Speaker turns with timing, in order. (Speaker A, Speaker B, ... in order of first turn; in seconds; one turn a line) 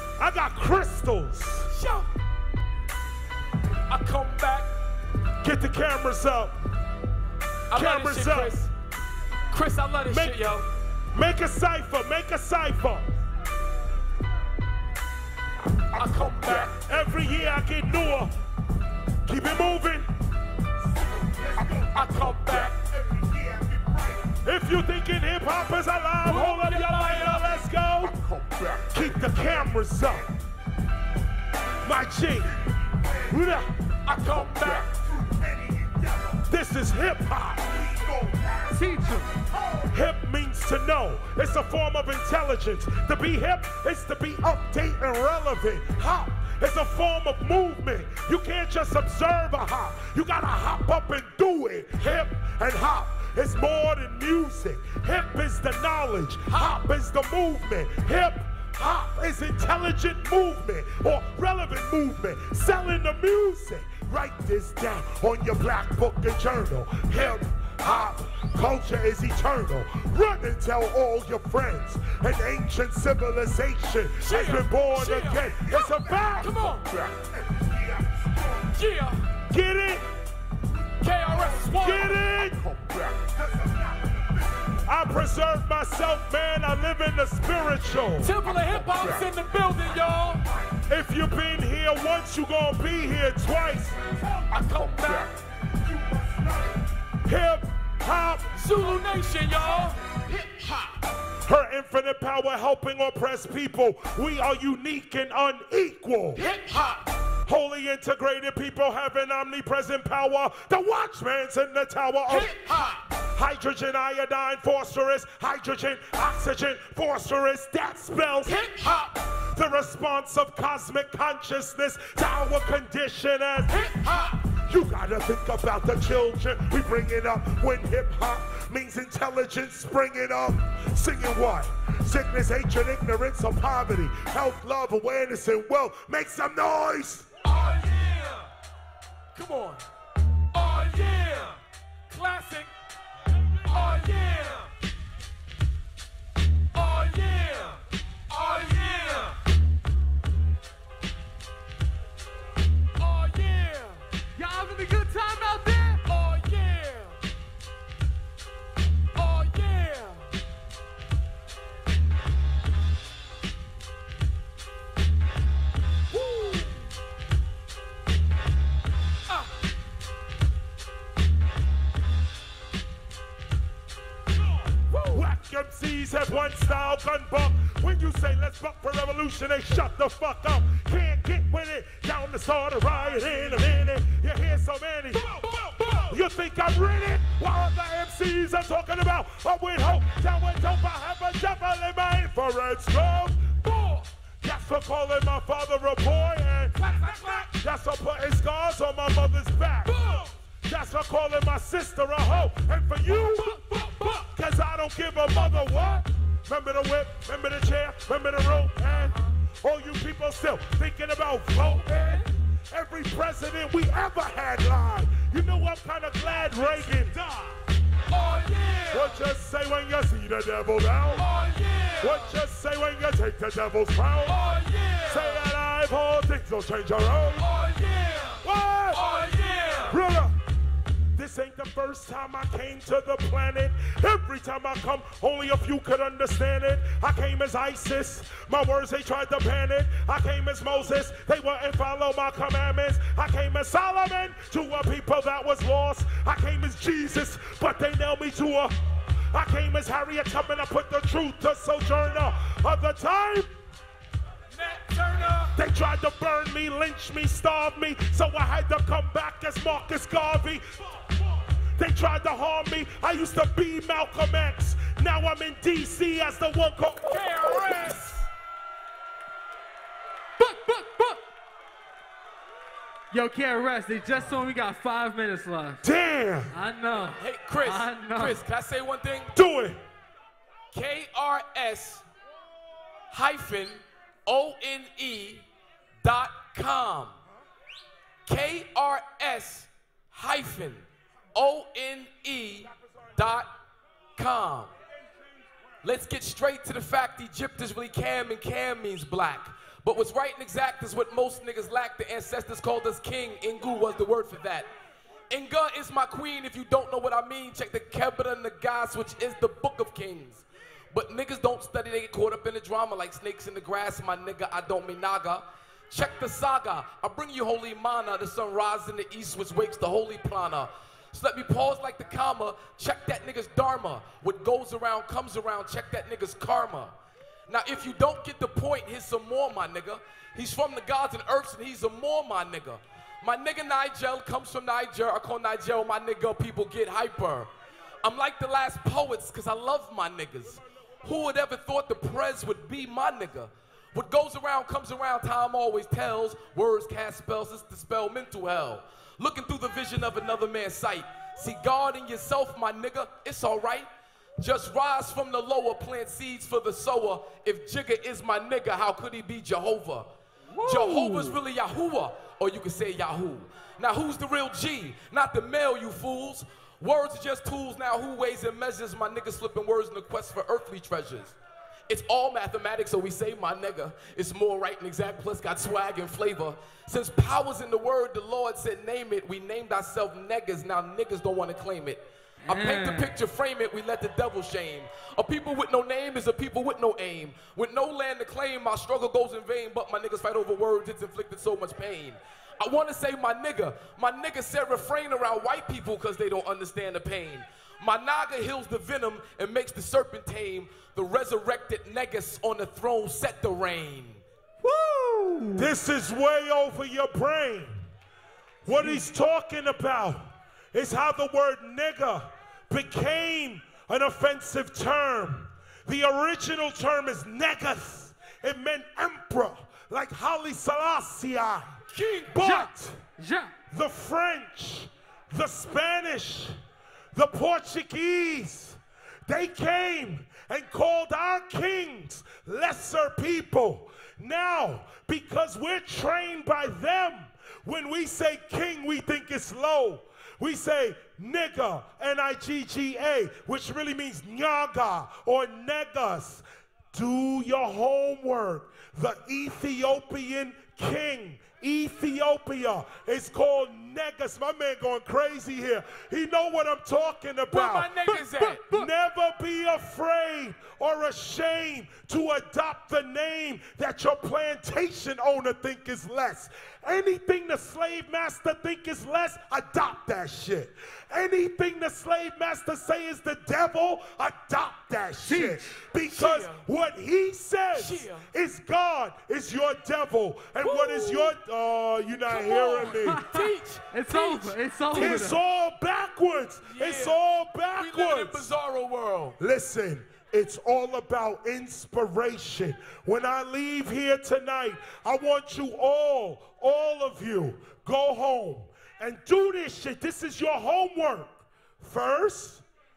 Speaker A: 0.2-1.7
Speaker B: 1.7-2.1
Speaker B: 3.9-4.7
Speaker A: 5.4-6.5
Speaker B: 7.7-8.7
Speaker A: 7.7-8.5
Speaker B: 9.5-10.7
Speaker A: 10.1-10.4
Speaker A: 11.1-13.2
Speaker B: 15.9-16.8
Speaker A: 16.7-18.3
Speaker A: 19.2-20.1
Speaker B: 21.8-22.8
Speaker A: 24.3-28.2
Speaker B: 26.2-27.6
Speaker A: 28.9-30.3
Speaker A: 31.8-32.5
Speaker A: 33.3-33.7
Speaker B: 34.0-35.0
Speaker A: 36.4-38.4
Speaker C: 38.7-39.3
Speaker A: 39.8-76.6
Speaker B: 56.5-56.7
Speaker B: 67.1-68.0
Speaker B: 74.2-77.0
Speaker B: 78.6-79.3
Speaker A: 79.5-80.0
Speaker B: 81.0-82.2
Speaker A: 81.7-82.8
Speaker A: 84.8-88.3
Speaker B: 88.2-90.5
Speaker A: 90.8-94.0
Speaker B: 94.2-95.3
Speaker A: 97.2-98.5
Speaker B: 98.5-100.9
Speaker A: 101.4-106.4
Speaker B: 106.3-107.1
Speaker A: 107.4-112.5
Speaker B: 112.3-113.0
Speaker A: 113.3-118.6
Speaker B: 118.4-119.2
Speaker A: 119.5-123.8
Speaker B: 123.7-124.5
Speaker A: 124.5-137.3
Speaker B: 137.4-138.5
Speaker B: 139.3-139.8
Speaker B: 140.5-142.7
Speaker B: 143.6-144.7
Speaker B: 146.7-149.4
Speaker B: 153.0-154.0
Speaker C: 154.3-156.0
Speaker B: 156.0-157.2
Speaker B: 159.1-160.2
Speaker B: 166.1-166.7
Speaker B: 174.9-175.2
Speaker A: 175.1-185.3
Speaker B: 185.2-186.1
Speaker A: 186.0-193.6
Speaker B: 193.6-194.1
Speaker A: 194.4-203.6
Speaker B: 196.8-197.5
Speaker B: 199.8-200.3
Speaker B: 203.4-204.2
Speaker A: 204.1-217.6
Speaker B: 211.6-212.3
Speaker B: 218.1-219.2
Speaker A: 218.9-221.2
Speaker B: 221.1-222.3
Speaker A: 222.0-224.5
Speaker B: 224.2-225.4
Speaker A: 225.0-227.4
Speaker B: 227.4-230.0
Speaker A: 228.4-229.0
Speaker A: 229.9-230.3
Speaker A: 231.1-248.7
Speaker A: 249.3-253.5
Speaker B: 254.5-255.5
Speaker A: 255.5-260.6
Speaker A: 261.7-267.8
Speaker B: 267.1-268.3
Speaker C: 270.4-271.2
Speaker C: 273.1-275.8
Speaker A: 275.8-276.5
Speaker C: 276.5-278.4
Speaker B: 277.2-279.3
Speaker A: 279.3-279.8
Speaker B: 280.7-282.1
Speaker B: 283.1-285.4
Speaker B: 286.0-287.2
Speaker B: 288.2-293.5
Speaker B: 294.1-294.7
Speaker B: 295.8-304.7
Speaker B: 305.3-326.9
Speaker B: 327.5-337.5
Speaker B: 338.0-360.1
Speaker C: 360.5-361.4
Speaker B: 360.6-371.4
Speaker B: 371.9-404.2
Speaker C: 382.4-383.1
Speaker C: 404.6-405.7
Speaker A: 405.6-407.9
Speaker A: 408.6-421.8
Speaker B: 421.9-422.3
Speaker A: 422.3-423.0
Speaker C: 422.4-423.5
Speaker A: 423.7-426.5
Speaker A: 427.1-457.9
Speaker B: 457.5-458.6
Speaker C: 458.1-458.9
Speaker A: 458.7-483.2
Speaker C: 475.2-475.8
Speaker B: 476.1-476.6
Speaker B: 477.7-478.3
Speaker B: 480.6-481.2
Speaker C: 482.3-485.4
Speaker B: 483.3-485.2
Speaker A: 484.9-488.5
Speaker B: 486.6-487.2
Speaker B: 487.7-489.4
Speaker A: 489.4-502.6